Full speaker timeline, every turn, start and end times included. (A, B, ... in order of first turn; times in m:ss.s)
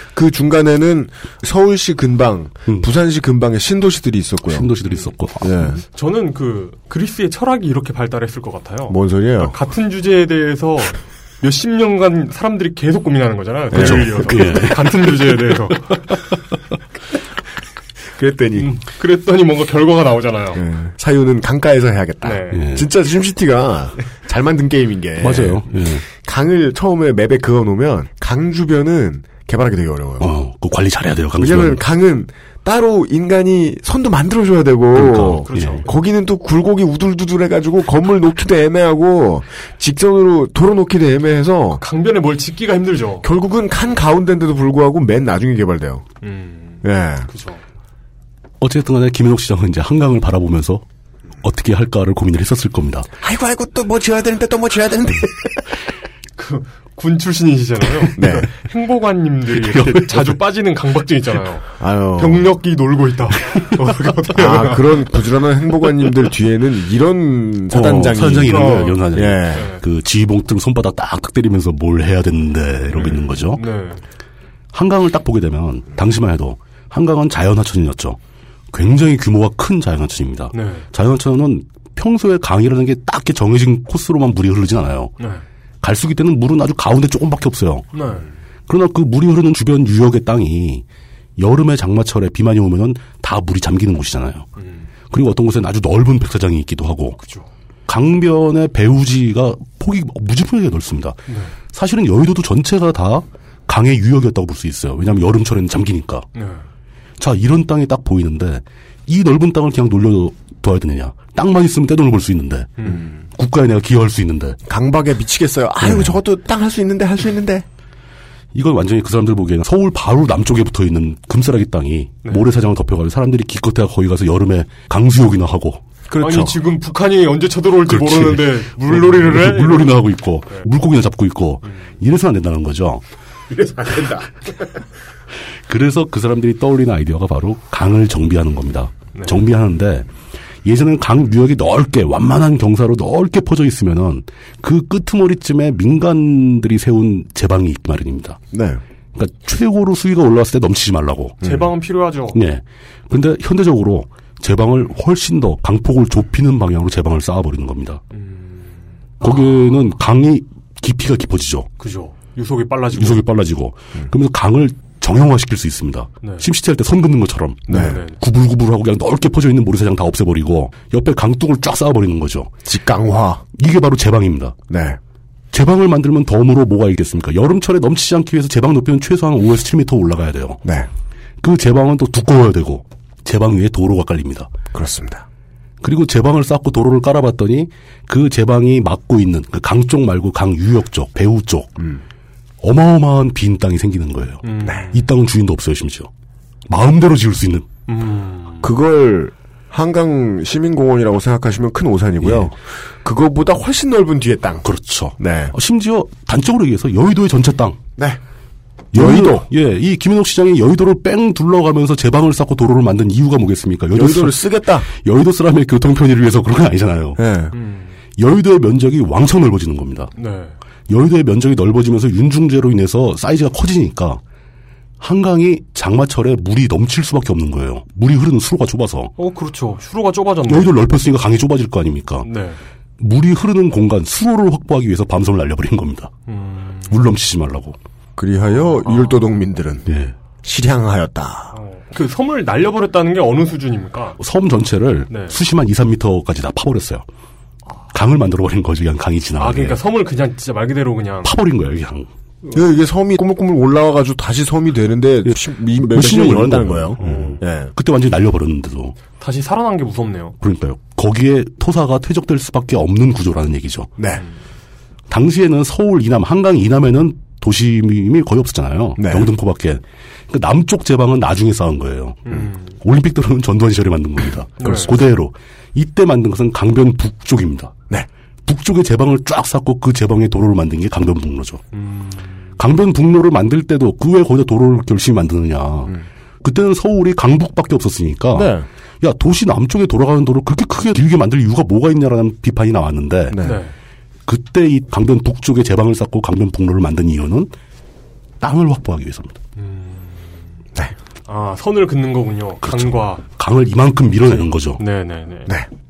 0:00.1-0:04.7 A
0:04.5-0:05.7 B
0:05.4-0:05.8 A
0:05.9-0:16.2 C
0:08.9-0:09.5 A
0:13.7-0:14.3 A
0:13.7-0:15.6 B
0:18.2-0:18.7 A
0:18.6-0:20.6 C
0:20.6-0:30.3 A
0:22.2-0:22.7 C
0:22.5-0:22.9 B
0:25.2-0:26.0 B
0:30.2-0:31.8 B
0:31.4-0:41.8 A
0:34.9-0:35.8 B
0:35.4-0:35.9 C
0:41.8-0:43.3 C
0:43.2-0:46.0 A
0:46.2-0:47.6 C
0:46.8-0:47.3 A
0:48.6-0:50.8 B
0:51.4-0:53.1 B
0:53.2-0:55.6 A
0:56.4-1:05.0 C
0:58.2-0:58.5 A
0:59.6-1:00.3 B
1:01.8-1:02.5 A
1:04.4-1:09.7 A
1:07.7-1:13.6 B
1:08.5-1:09.0 C
1:09.5-1:09.8 C
1:12.9-1:14.0 C
1:14.7-1:18.2 B
1:18.7-1:25.1 B
1:20.5-1:20.9 C
1:25.8-1:27.9 B
1:27.9-1:28.3 C
1:28.7-1:30.8 B
1:31.4-1:34.5 B
1:34.6-1:34.9 C
1:35.1-1:37.2 B
1:37.2-1:37.5 C
1:37.9-1:41.2 B
1:41.3-1:41.5 C
1:41.7-1:46.3 B
1:46.4-1:46.6 C
1:47.2-1:52.8 B
1:52.8-1:53.0 C
1:53.4-1:54.6 B
1:54.7-1:57.7 A
1:55.8-1:56.2 B
1:58.6-2:05.8 B
2:06.1-2:06.6 A
2:06.2-2:10.0 C
2:07.9-2:13.0 B
2:13.8-2:14.1 A
2:15.7-2:20.1 B
2:20.6-2:28.4 B
2:28.5-2:28.8 A
2:29.2-2:31.4 B
2:31.4-2:31.7 A
2:31.4-2:32.4 C
2:32.3-2:38.0 B
2:38.1-2:38.8 C
2:39.2-2:41.7 B
2:41.8-2:43.2 C
2:43.0-2:52.5 B
2:47.7-2:48.0 A
2:47.7-2:48.2 C
2:52.7-2:53.4 A
2:53.6-2:54.6 B
2:54.7-2:55.0 A
2:55.5-3:00.6 B
3:00.6-3:00.9 A
3:01.4-3:04.5 B
3:04.7-3:05.2 A
3:05.8-3:11.8 B
3:12.6-3:16.1 B
3:14.4-3:15.0 C
3:16.7-3:17.7 B
3:17.9-3:18.7 C
3:18.6-3:24.7 A
3:22.2-3:22.5 B
3:24.6-3:27.8 B
3:25.2-3:25.6 A
3:28.9-3:29.5 A
3:28.9-3:37.2 B
3:34.0-3:34.9 A
3:37.2-3:37.6 A
3:37.5-3:38.0 C
3:38.2-3:40.1 B
3:40.2-3:40.6 C
3:40.9-3:44.2 B
3:45.0-3:49.1 B
3:49.2-3:50.7 C
3:50.5-3:52.3 B
3:52.2-3:52.6 C
3:53.0-3:56.1 B
3:56.3-3:57.1 C
3:56.9-3:57.8 B
3:58.2-3:59.9 A
3:58.8-3:59.2 C
3:59.9-4:00.1 B
4:00.4-4:01.6 A
4:01.5-4:04.2 C
4:04.2-4:07.0 B
4:05.1-4:05.4 C
4:07.9-4:09.8 B
4:09.4-4:11.4 C
4:11.2-4:12.1 B
4:12.5-4:17.7 A
4:15.3-4:19.0 B
4:17.0-4:17.4 C
4:19.2-4:20.4 C
4:20.4-4:23.9 B
4:24.0-4:24.2 A
4:25.1-4:37.8 B
4:29.0-4:29.3 A
4:32.3-4:32.7 C
4:34.6-4:34.9 C
4:38.5-4:41.6 B
4:41.7-4:42.4 C
4:42.6-4:53.4 B
4:48.3-4:48.7 A
4:53.3-4:53.6 A
4:53.4-4:53.7 C
4:54.3-4:57.5 B
4:58.4-4:59.4 B
4:59.6-5:00.3 C
5:01.3-5:03.2 C
5:02.6-5:04.8 B
5:04.8-5:05.5 C